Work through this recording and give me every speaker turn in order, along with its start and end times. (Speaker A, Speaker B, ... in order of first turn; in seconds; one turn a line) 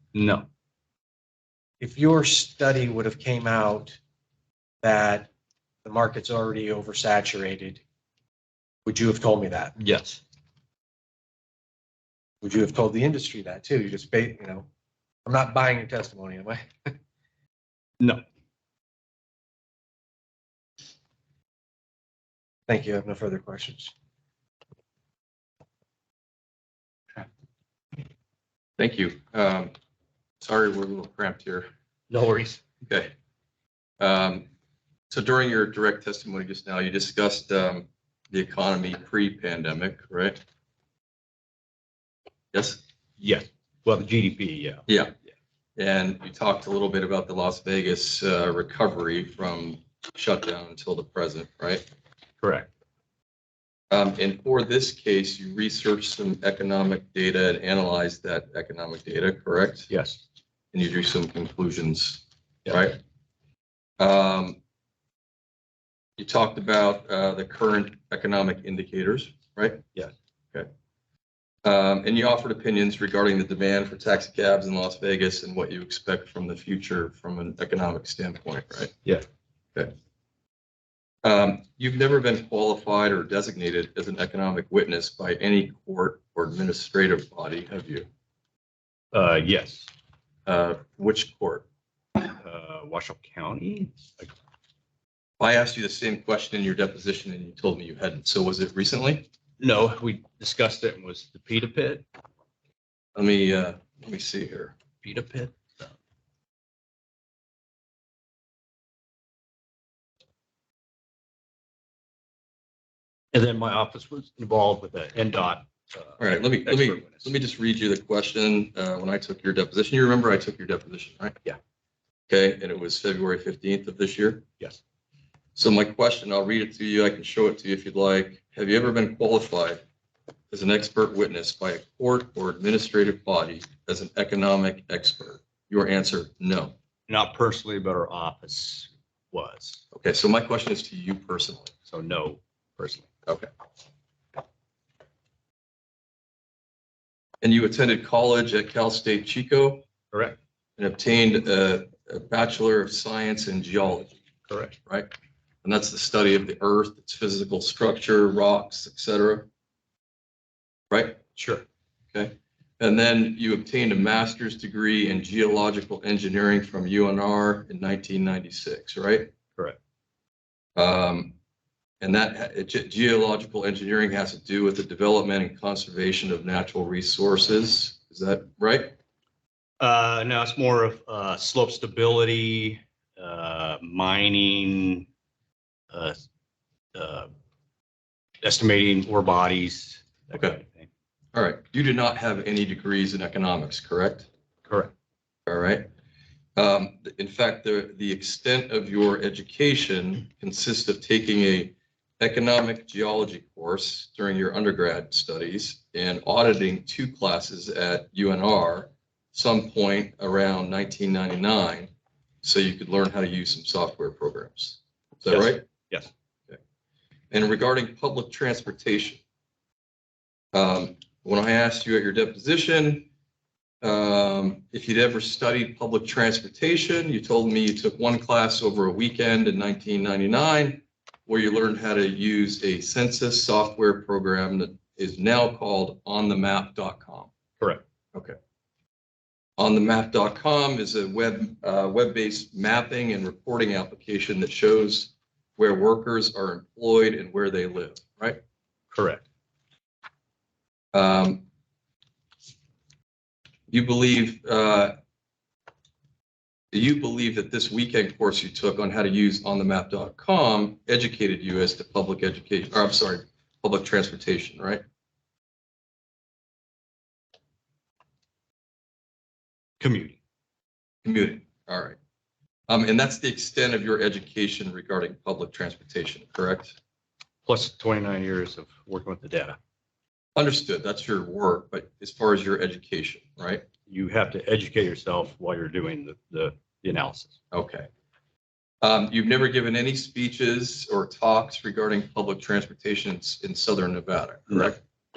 Speaker A: 0.1-0.5
Speaker B: 1.8-4.0
Speaker B: 4.8-5.3
Speaker B: 5.8-7.8
Speaker B: 8.9-9.8
Speaker A: 9.8-10.2
Speaker B: 12.4-14.7
Speaker B: 15.2-16.6
Speaker B: 22.7-23.9
Speaker C: 28.8-29.7
Speaker C: 30.4-31.7
Speaker A: 32.1-32.6
Speaker C: 32.9-33.1
Speaker C: 34.0-34.5
Speaker C: 35.1-40.4
Speaker C: 42.5-42.8
Speaker A: 43.2-44.8
Speaker C: 44.9-45.1
Speaker C: 45.8-51.9
Speaker A: 52.4-52.7
Speaker C: 53.9-59.9
Speaker A: 59.9-60.2
Speaker C: 60.7-63.0
Speaker C: 64.0-64.6
Speaker C: 66.2-69.8
Speaker C: 71.7-79.0
Speaker C: 81.2-88.1
Speaker A: 89.1-89.9
Speaker C: 90.5-91.7
Speaker A: 92.3-94.3
Speaker C: 95.4-99.3
Speaker A: 99.6-102.1
Speaker C: 103.2-104.8
Speaker A: 105.0-105.9
Speaker A: 113.3-117.3
Speaker C: 116.2-121.4
Speaker C: 122.3-124.5
Speaker C: 125.5-129.8
Speaker C: 130.5-136.8
Speaker A: 137.1-139.8
Speaker C: 139.9-141.7
Speaker A: 141.9-143.1
Speaker C: 147.4-149.8
Speaker A: 150.1-150.4
Speaker C: 150.8-154.2
Speaker A: 154.5-154.8
Speaker C: 155.6-159.5
Speaker C: 160.9-161.2
Speaker A: 161.4-161.6
Speaker C: 162.1-169.3
Speaker C: 170.8-171.3
Speaker C: 172.0-178.9
Speaker A: 179.8-185.1
Speaker A: 185.9-186.2
Speaker A: 186.9-187.3
Speaker A: 188.4-190.9
Speaker C: 191.3-194.3
Speaker A: 194.7-194.9
Speaker C: 195.5-195.9
Speaker C: 196.6-211.9
Speaker C: 212.4-215.7
Speaker A: 215.3-216.1
Speaker C: 217.3-219.2
Speaker C: 220.5-223.1
Speaker C: 223.8-237.3
Speaker C: 239.6-248.4
Speaker A: 248.9-249.2
Speaker C: 250.9-251.4
Speaker C: 253.7-254.9
Speaker C: 256.7-264.8
Speaker A: 269.8-270.2
Speaker C: 271.0-272.0
Speaker C: 272.7-276.8
Speaker A: 277.5-279.6
Speaker C: 280.4-283.7
Speaker A: 283.9-287.4
Speaker C: 287.5-287.9
Speaker C: 288.8-294.8